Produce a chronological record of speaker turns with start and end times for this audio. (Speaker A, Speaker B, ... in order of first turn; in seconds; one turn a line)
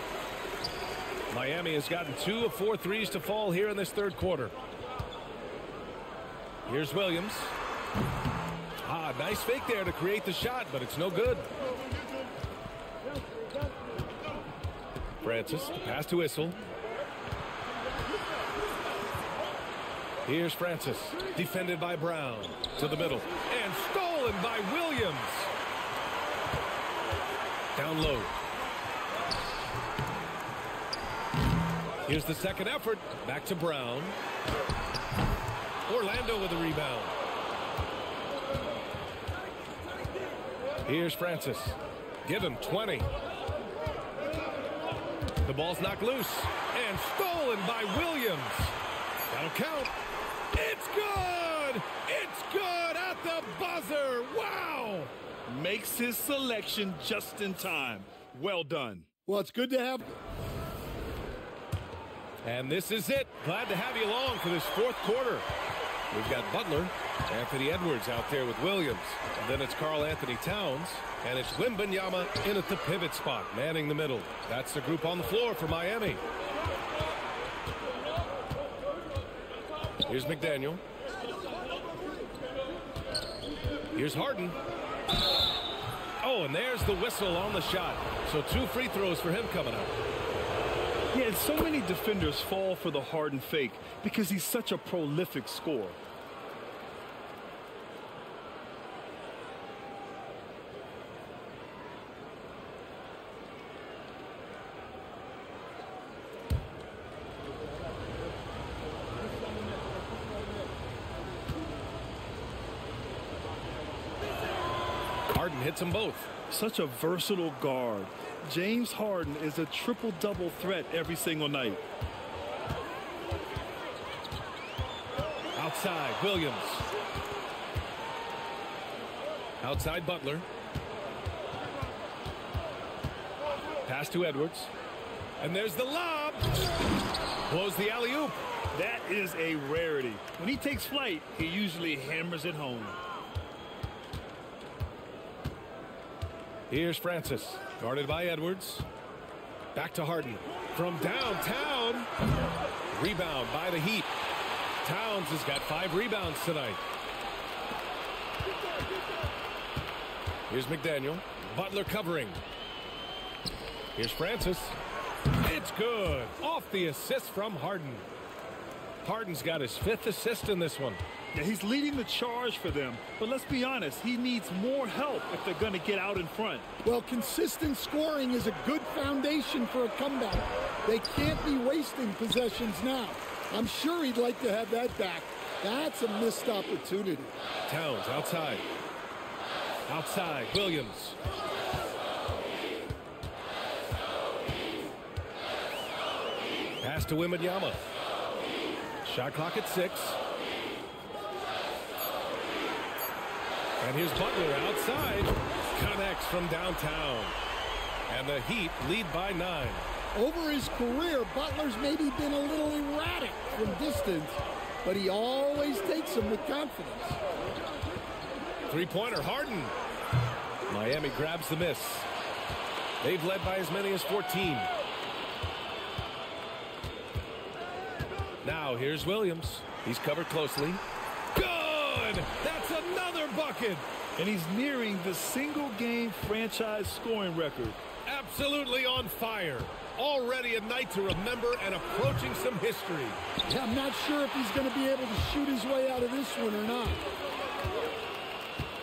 Speaker A: 1.3-4.5
Speaker A: 6.7-7.5
Speaker A: 8.8-11.5
Speaker A: 15.2-16.6
Speaker A: 20.2-25.5
Speaker A: 27.7-28.4
Speaker A: 32.0-34.2
Speaker A: 35.9-37.1
Speaker A: 40.8-43.1
Speaker A: 45.4-48.7
Speaker A: 49.3-49.9
Speaker A: 50.5-55.1
Speaker B: 55.5-59.0
Speaker C: 59.2-60.2
Speaker A: 62.4-65.4
Speaker A: 66.1-76.2
Speaker A: 80.0-80.8
Speaker A: 83.9-84.6
Speaker A: 86.2-90.0
Speaker B: 91.1-96.0
Speaker A: 115.3-116.3
Speaker B: 116.5-121.8
Speaker A: 125.5-126.8
Speaker A: 129.6-130.4
Speaker A: 133.8-134.7
Speaker A: 135.4-136.5
Speaker A: 137.5-138.3
Speaker B: 138.7-142.9
Speaker A: 146.7-148.8
Speaker A: 149.7-152.1
Speaker A: 152.9-154.1
Speaker A: 154.8-156.8
Speaker A: 160.5-162.4
Speaker A: 163.9-164.8
Speaker A: 165.3-168.1
Speaker A: 169.0-171.0
Speaker B: 171.3-176.7
Speaker C: 176.8-187.3
Speaker A: 187.7-188.6
Speaker A: 189.9-191.2
Speaker A: 196.8-197.8
Speaker A: 199.0-200.2
Speaker A: 203.8-207.3
Speaker A: 208.1-209.8
Speaker C: 210.1-217.2
Speaker A: 218.7-219.7
Speaker A: 220.7-222.1
Speaker A: 223.0-224.7
Speaker A: 228.4-230.8
Speaker A: 231.3-233.8
Speaker B: 234.2-237.8
Speaker A: 238.0-243.2
Speaker C: 243.5-247.1